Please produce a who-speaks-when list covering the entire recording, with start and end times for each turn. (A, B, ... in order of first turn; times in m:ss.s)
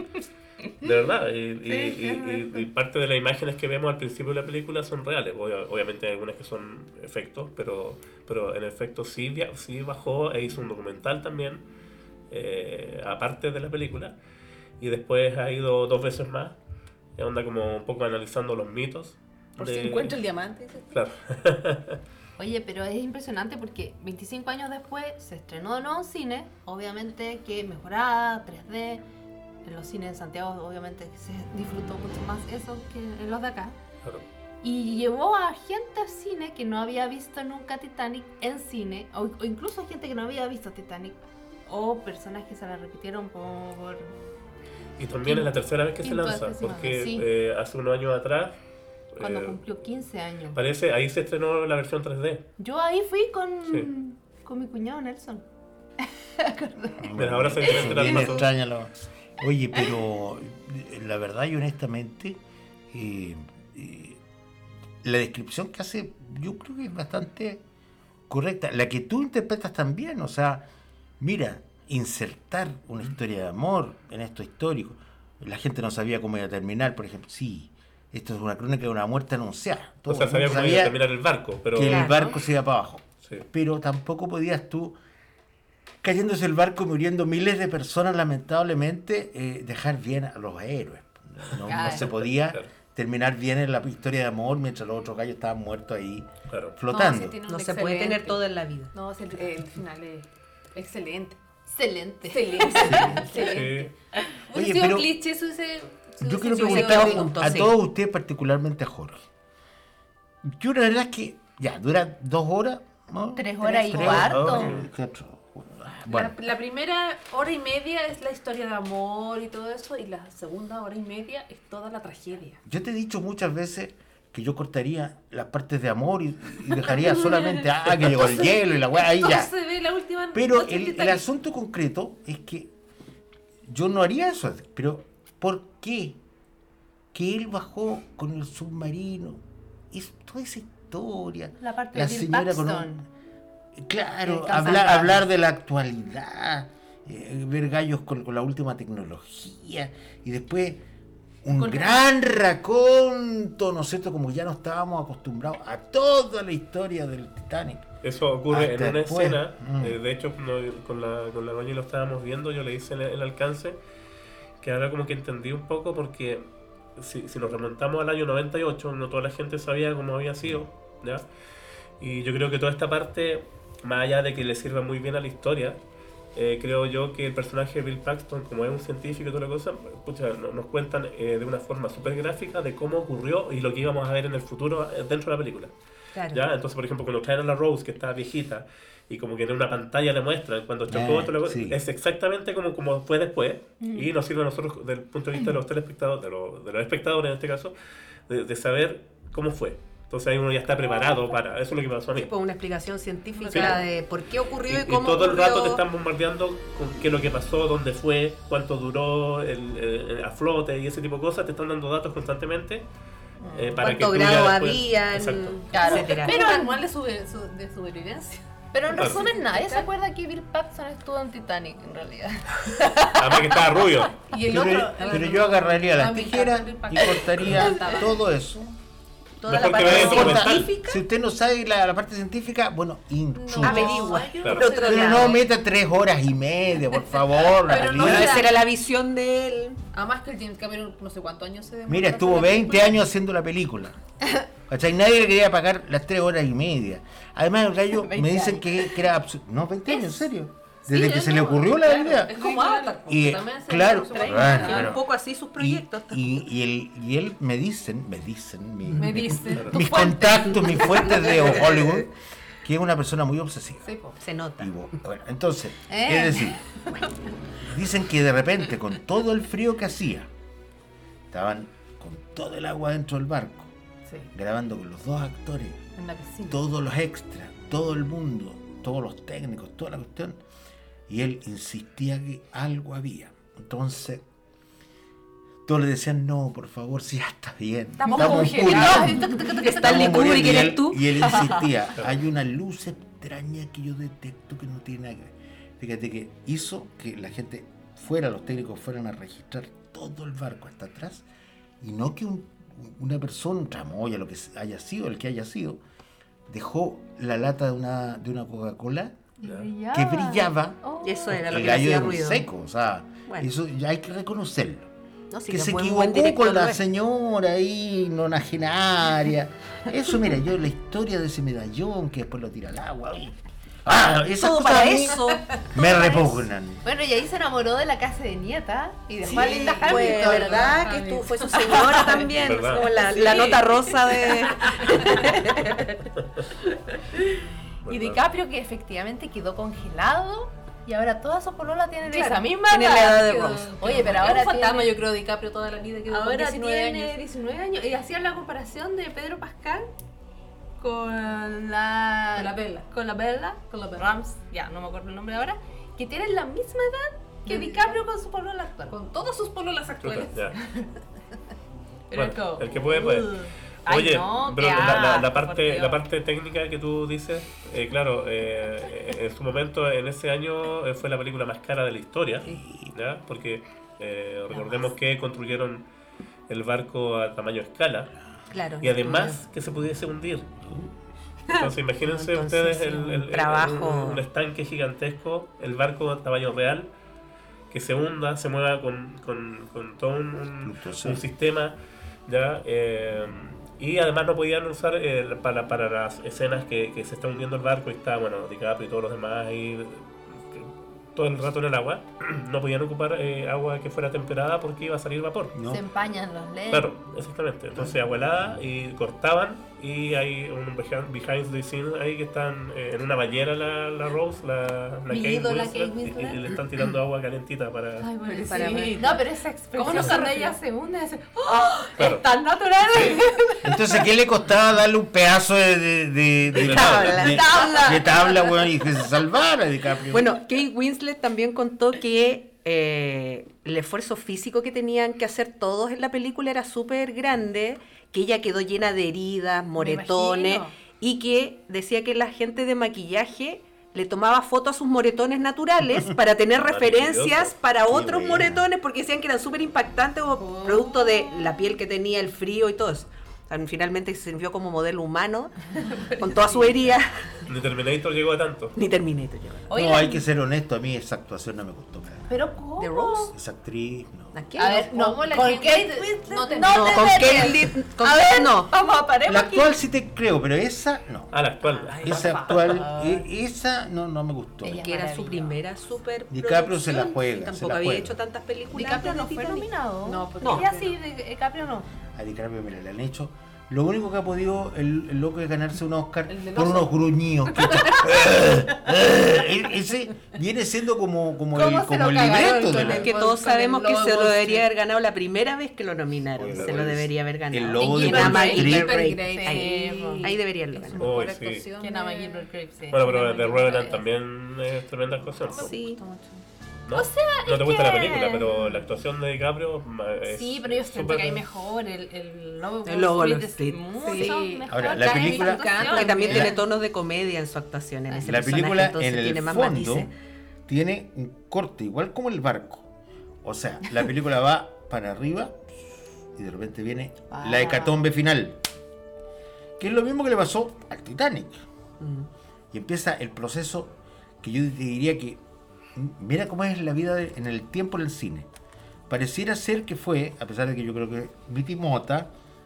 0:00.8-0:11.6 A
0:01.7-0:02.4 B
0:12.3-0:14.2 A
0:14.8-0:16.6 A
0:17.2-0:20.2 A
0:19.6-0:20.9 C
0:20.9-0:22.0 A
0:22.4-0:29.0 B
0:29.6-0:33.8 B
0:34.6-0:44.1 B
0:45.0-0:48.6 A
0:46.0-0:47.3 B
0:49.1-0:49.6 A
0:49.2-0:50.6 B
0:50.5-0:52.5 A
0:52.6-0:55.4 B
0:56.4-0:57.1 B
0:57.0-1:02.4 D
0:57.2-0:58.5 A
0:57.6-0:58.4 B
1:02.9-1:04.2 D
1:05.0-1:07.6 D
1:08.3-1:10.7 D
1:11.2-1:21.0 D
1:20.1-1:22.2 A
1:21.7-1:25.0 D
1:21.9-1:22.4 E
1:26.0-1:37.4 D
1:31.6-1:32.1 B
1:31.8-1:32.7 A
1:36.5-1:36.8 A
1:36.9-1:38.4 C
1:37.5-1:39.4 E
1:38.9-1:41.4 C
1:41.7-1:43.6 B
1:42.3-1:43.9 C
1:42.8-1:43.3 D
1:43.4-1:43.9 A
1:44.5-1:47.5 C
1:44.5-1:45.2 D
1:46.2-1:49.2 D
1:46.6-1:47.7 E
1:50.4-1:56.4 D
1:53.4-1:54.7 B
1:54.0-1:54.8 A
1:56.0-2:02.6 C
2:02.7-2:09.5 D
2:06.9-2:11.3 C
2:10.3-2:12.7 D
2:13.7-2:16.2 D
2:17.1-2:23.1 D
2:21.6-2:23.0 B
2:23.8-2:30.8 D
2:24.2-2:25.2 B
2:31.4-2:37.9 D
2:31.6-2:31.9 C
2:38.0-2:43.8 A
2:38.5-2:40.0 D
2:44.6-2:46.4 A
2:47.0-2:51.2 A
2:52.0-2:55.8 A
2:56.4-3:05.7 A
3:06.2-3:06.4 E
3:06.3-3:17.8 A
3:10.9-3:11.8 D
3:13.8-3:14.1 B
3:18.3-3:22.3 A
3:22.1-3:25.8 E
3:23.4-3:23.8 C
3:23.5-3:23.8 A
3:24.7-3:32.8 A
3:33.5-3:33.7 B
3:33.5-3:35.6 A
3:33.8-3:36.4 E
3:35.7-3:36.8 B
3:35.8-3:39.9 C
3:38.7-3:43.2 B
3:38.9-3:39.2 A
3:43.2-3:44.2 A
3:44.2-3:48.2 C
3:44.4-3:48.8 D
3:49.4-3:51.0 E
3:49.5-3:50.7 A
3:49.6-3:58.5 D
3:53.4-3:55.4 C
3:53.6-3:55.4 E
3:54.4-3:54.7 A
3:56.8-3:58.5 C
3:57.9-3:59.8 E
3:59.9-4:03.0 C
4:01.9-4:04.0 D
4:04.7-4:12.4 D
4:08.1-4:08.8 E
4:10.9-4:15.0 C
4:12.3-4:13.0 E
4:13.1-4:22.1 D
4:14.3-4:16.4 E
4:14.4-4:14.8 B
4:18.9-4:21.4 C
4:22.6-4:23.9 D
4:23.8-4:24.2 C
4:24.2-4:24.7 E
4:24.6-4:26.6 D
4:25.9-4:26.6 B
4:27.6-4:30.3 D
4:31.3-4:33.7 D
4:34.3-4:35.8 D
4:36.0-4:36.6 C
4:36.5-4:40.4 D
4:41.1-4:44.2 D
4:45.6-5:01.2 D
4:48.0-4:50.4 C
4:48.1-4:48.7 B
4:48.9-4:51.2 E
4:51.3-4:51.6 C
5:01.8-5:05.8 D
5:06.5-5:09.2 D
5:09.4-5:11.6 B
5:09.4-5:09.7 A
5:09.9-5:14.9 D
5:11.0-5:12.4 E
5:15.3-5:16.8 E
5:15.5-5:26.8 D
5:24.4-5:25.6 E
5:25.8-5:32.2 B
5:29.2-5:29.8 D
5:29.2-5:35.9 E
5:29.3-5:32.3 C
5:32.4-5:32.9 A
5:33.0-5:35.4 C
5:33.2-5:33.6 B
5:34.9-5:35.3 B
5:37.8-5:38.2 A
5:37.9-5:45.0 B
5:42.1-5:42.6 C
5:42.7-5:44.4 E
5:43.7-5:47.2 C
5:46.1-5:49.9 B
5:50.8-5:59.0 B
5:52.3-5:52.9 C
5:57.4-5:58.0 C
5:58.9-6:00.9 C
6:00.0-6:00.6 A
6:02.1-6:03.2 C
6:02.1-6:03.4 A
6:02.1-6:06.0 B
6:03.9-6:15.8 A
6:12.4-6:12.9 D
6:14.5-6:14.9 E
6:16.5-6:18.1 A
6:18.5-6:19.4 E
6:18.8-6:20.5 A
6:20.6-6:20.9 D
6:21.5-6:26.9 A
6:22.0-6:24.2 E
6:27.7-6:31.8 A
6:30.6-6:31.2 D
6:32.3-6:45.6 A
6:45.5-6:45.8 D
6:45.7-6:46.9 B
6:46.7-6:58.1 A
6:47.8-6:48.4 D
6:55.1-6:56.6 B
6:58.0-7:03.3 B
6:58.1-7:00.6 C
6:58.4-6:59.2 E
7:01.7-7:03.8 C
7:02.0-7:02.2 A
7:02.9-7:03.2 A
7:03.6-7:10.4 D
7:06.5-7:07.4 A
7:06.5-7:08.4 E
7:07.4-7:08.0 B
7:07.5-7:08.0 C
7:10.1-7:37.3 E
7:19.8-7:20.8 C
7:26.5-7:27.6 A
7:27.8-7:28.7 D
7:30.5-7:31.0 B
7:30.6-7:31.1 C
7:36.0-7:36.7 C
7:37.5-7:38.8 A
7:38.8-7:39.7 E
7:39.7-7:40.2 B
7:39.7-7:42.4 D
7:42.3-7:43.3 B
7:42.8-7:43.3 E
7:43.3-7:44.4 D
7:44.3-7:44.9 E
7:44.6-7:49.7 B
7:44.7-7:47.6 C
7:46.6-7:48.7 E
7:49.3-7:51.3 D
7:51.3-7:52.8 A
7:51.6-7:53.1 E
7:52.0-7:54.9 D
7:52.1-7:52.5 C
7:54.6-7:55.6 B
7:54.8-7:59.7 E
7:56.3-7:58.2 D
7:58.7-8:01.9 B
8:00.0-8:01.0 C
8:00.4-8:00.7 E
8:02.1-8:13.1 D
8:06.3-8:08.1 C
8:11.5-8:14.7 B
8:12.7-8:21.1 E
8:16.4-8:19.2 D
8:17.8-8:22.5 C
8:17.8-8:20.4 B
8:21.0-8:21.7 A
8:21.8-8:24.0 B
8:22.9-8:25.7 A
8:25.5-8:26.4 C
8:25.6-8:26.0 E
8:26.9-8:31.4 A
8:26.9-8:28.5 B
8:27.8-8:28.1 C
8:30.2-8:36.6 B
8:32.8-8:34.3 E
8:33.9-8:36.5 C
8:34.7-8:36.6 D
8:35.8-8:40.1 E
8:38.2-8:40.1 D
8:40.7-8:42.9 D
8:43.4-8:45.6 D
8:46.4-8:48.6 D
8:47.3-8:48.0 B
8:49.8-8:51.6 D
8:52.0-8:52.3 E
8:52.7-8:55.4 D
8:56.0-8:58.5 D
8:59.1-9:02.3 D